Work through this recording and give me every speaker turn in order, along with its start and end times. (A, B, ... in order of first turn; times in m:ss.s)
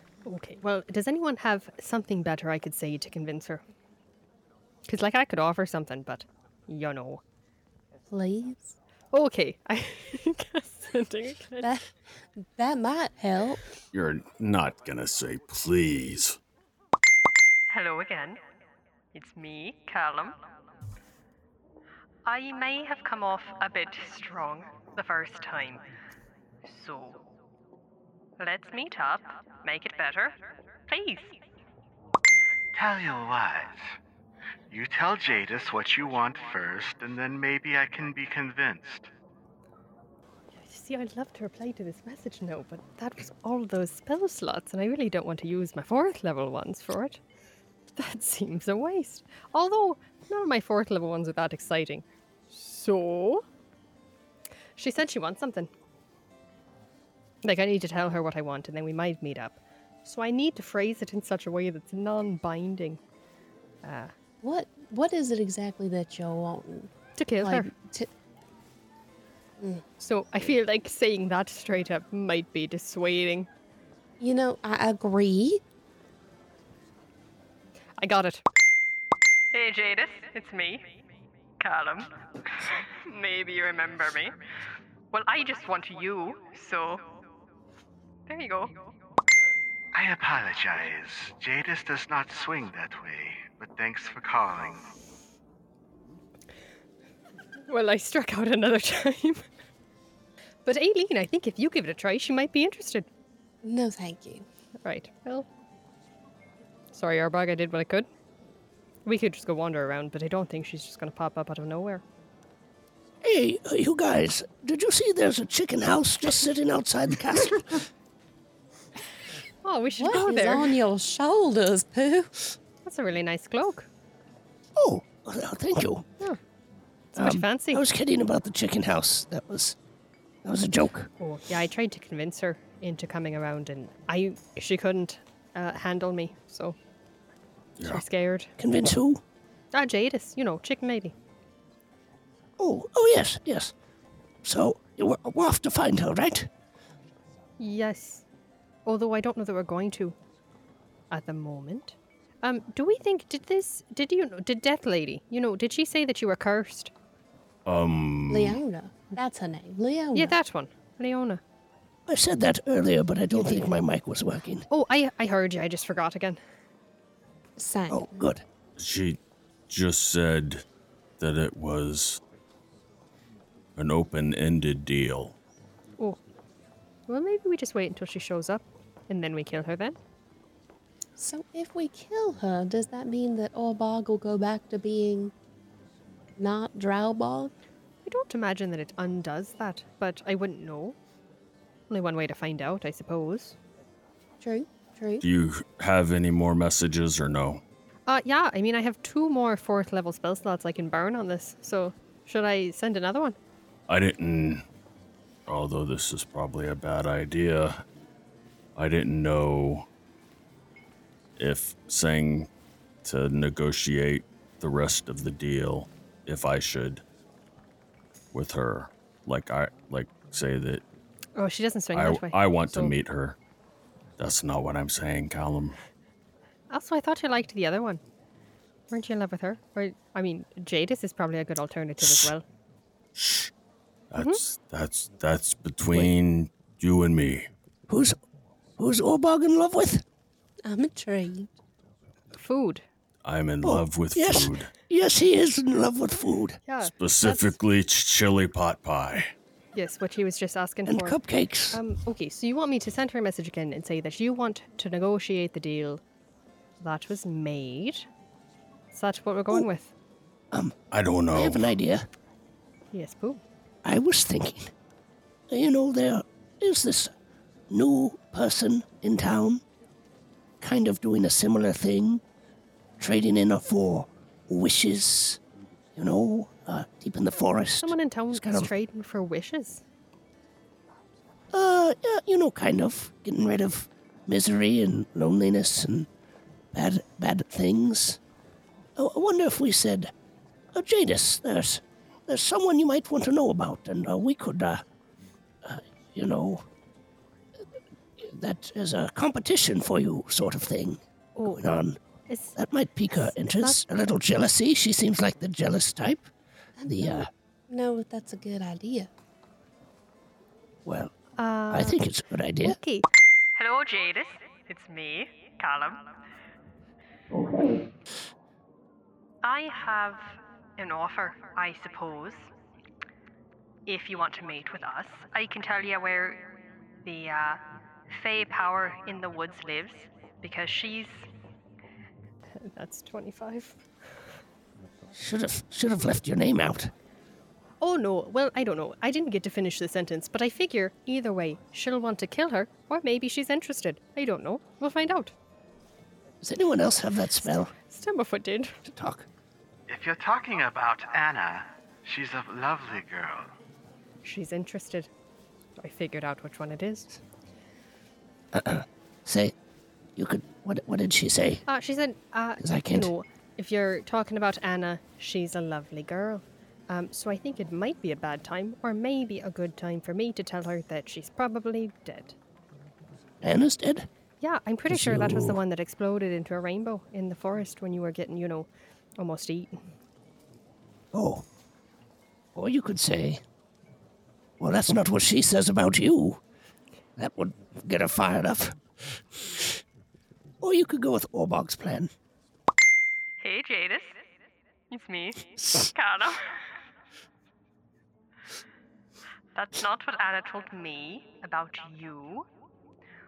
0:00.2-0:03.6 A
0:04.9-0:07.2 A
0:08.1-0:08.7 B
0:09.1-0:11.7 A
0:11.6-0:11.9 B
0:12.4-0:13.6 B
0:13.9-0:16.4 C
0:17.7-0:18.4 A
0:19.1-0:20.4 A
0:22.3-0:25.8 A
0:26.7-0:27.2 A
0:28.4-0:30.4 A
0:30.9-0:31.4 A
0:32.7-0:33.8 D
0:34.7-0:39.1 D
0:40.5-0:47.2 A
0:48.0-0:53.4 A
0:54.8-0:55.7 A
0:57.4-1:03.0 A
1:03.8-1:04.1 A
1:04.4-1:08.1 B
1:07.2-1:07.7 A
1:10.0-1:13.5 A
1:14.2-1:15.6 B
1:18.0-1:18.4 A
1:19.5-1:20.8 A
1:21.6-1:24.4 A
1:25.1-1:27.0 A
1:28.3-1:28.8 A
1:29.9-1:34.9 D
1:37.7-1:39.4 A
1:40.7-1:43.1 A
1:43.6-1:44.4 B
1:44.8-1:45.5 A
1:46.9-1:48.1 A
1:49.1-1:52.0 A
1:53.2-1:57.8 E
1:59.6-2:00.8 A
2:00.0-2:02.6 B
2:02.8-2:03.9 A
2:04.8-2:06.1 E
2:07.1-2:07.9 A
2:07.2-2:09.8 E
2:10.4-2:11.1 E
2:11.2-2:16.8 A
2:17.8-2:18.5 A
2:18.6-2:19.2 E
2:19.7-2:21.1 A
2:22.6-2:23.7 E
2:24.4-2:26.5 E
2:27.6-2:28.2 A
2:28.9-2:30.2 A
2:31.1-2:36.9 A
2:37.7-2:38.6 C
2:38.3-2:40.4 B
2:40.1-2:41.4 A
2:42.1-2:44.7 E
2:43.3-2:43.7 A
2:44.7-2:46.4 A
2:47.6-2:48.2 B
2:47.9-2:48.4 E
2:48.8-2:49.2 C
2:49.7-2:50.6 C
2:51.2-2:52.2 C
2:53.8-2:55.4 C
2:57.1-3:00.0 A
3:01.2-3:05.3 B
3:06.4-3:07.5 B
3:08.0-3:11.0 A
3:11.9-3:13.6 A
3:14.4-3:15.2 B
3:15.2-3:17.6 C
3:18.1-3:23.4 A
3:23.9-3:24.6 C
3:25.5-3:27.8 C
3:28.8-3:29.9 C
3:31.4-3:32.5 C
3:33.0-3:37.0 C
3:38.3-3:40.8 C
3:41.4-3:42.9 A
3:41.9-3:43.4 C
3:44.2-3:45.8 C
3:46.7-3:48.0 A
3:48.9-3:52.4 A
3:53.2-3:53.5 C
3:54.1-3:57.5 C
3:54.2-3:54.4 A
3:57.9-3:58.2 E
3:58.8-4:00.0 E
4:00.6-4:01.5 B
4:02.3-4:02.8 A
4:03.2-4:04.7 C
4:03.6-4:06.6 E
4:06.6-4:07.5 A
4:07.0-4:09.3 C
4:09.7-4:11.2 A
4:10.9-4:11.8 E
4:11.7-4:16.0 A
4:16.8-4:18.1 A
4:18.9-4:19.9 A
4:20.9-4:21.8 C
4:21.3-4:22.1 E
4:22.9-4:23.4 A
4:23.8-4:24.7 E
4:25.5-4:27.1 E
4:27.7-4:29.6 E
4:30.6-4:32.2 E
4:33.0-4:35.4 E
4:36.0-4:38.7 E
4:37.8-4:39.8 A
4:41.5-4:46.1 E
4:46.7-4:48.2 E
4:49.0-4:50.1 E
4:50.7-4:54.8 E
4:55.6-4:56.7 E
4:58.2-5:02.0 E
5:01.4-5:01.7 A
5:02.3-5:02.6 A
5:02.6-5:06.3 E
5:03.1-5:03.8 A
5:06.8-5:09.1 B
5:06.9-5:07.3 E
5:10.8-5:11.1 E
5:11.4-5:12.0 A
5:11.7-5:12.8 E
5:12.6-5:16.0 A
5:17.3-5:17.8 E
5:19.4-5:22.4 A
5:23.9-5:26.5 A
5:27.0-5:31.2 A
5:32.6-5:33.8 A
5:35.1-5:36.9 E
5:37.8-5:45.3 A
5:46.4-5:47.7 E
5:47.4-5:48.8 A
5:48.8-5:49.3 E
5:49.9-5:53.5 D
5:54.2-5:55.1 A
5:55.8-5:57.2 A
5:58.5-5:59.6 E
6:00.2-6:01.6 E
6:01.7-6:12.4 A
6:02.6-6:03.1 E
6:13.4-6:14.1 E
6:14.4-6:19.8 A
6:14.9-6:15.6 E
6:21.1-6:21.4 E
6:22.6-6:23.4 E
6:24.6-6:26.4 E
6:27.2-6:28.8 E
6:30.6-6:32.1 E
6:33.4-6:34.2 A
6:34.9-6:36.5 A
6:35.6-6:35.9 E
6:39.6-6:42.4 A